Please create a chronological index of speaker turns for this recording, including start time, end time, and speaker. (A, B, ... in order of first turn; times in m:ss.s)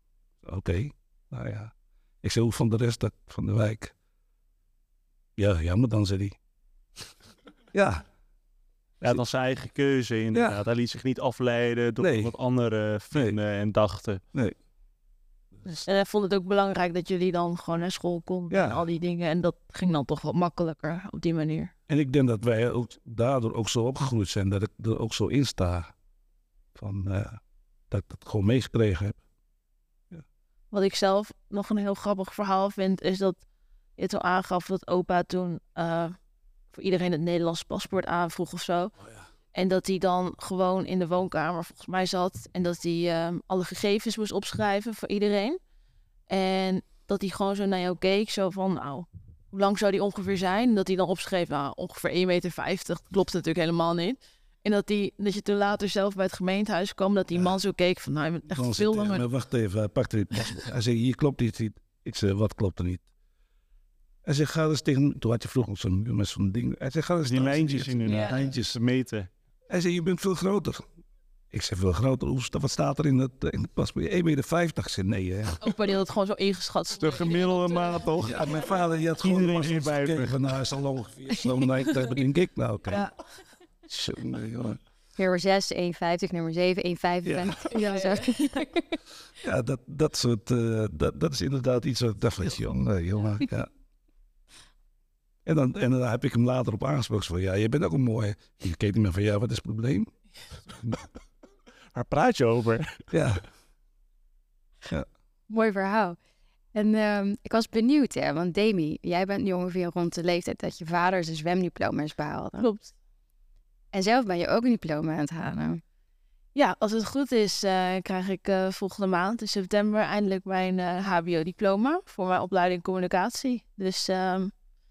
0:00.4-0:03.9 A
0:05.4-0:06.4 A
0:07.7-0:08.1 A
0:09.0-0:14.2 B
0:10.3-0:10.6 A
0:12.0-0:12.3 A
0:15.7-0:21.7 C
0:18.5-0:18.8 A
0:21.9-0:25.9 A
0:26.8-0:29.2 A
0:30.7-0:33.4 C
0:34.0-0:36.2 C
0:36.7-0:39.0 C
0:39.5-0:45.6 C
0:46.3-0:59.2 C
0:58.5-1:03.1 A
1:04.2-1:08.6 A
1:07.2-1:09.3 B
1:09.7-1:10.8 A
1:11.5-1:15.6 A
1:15.6-1:17.5 C
1:17.0-1:18.7 B
1:18.2-1:23.0 A
1:19.2-1:20.5 B
1:23.9-1:24.8 A
1:25.2-1:28.9 D
1:27.2-1:27.6 A
1:27.7-1:28.4 C
1:29.4-1:33.7 A
1:35.4-1:40.1 A
1:41.9-1:43.1 B
1:43.1-1:43.4 A
1:45.5-1:46.2 D
1:46.7-1:52.7 D
1:52.6-1:52.9 C
1:53.9-1:55.8 D
1:56.6-2:04.5 C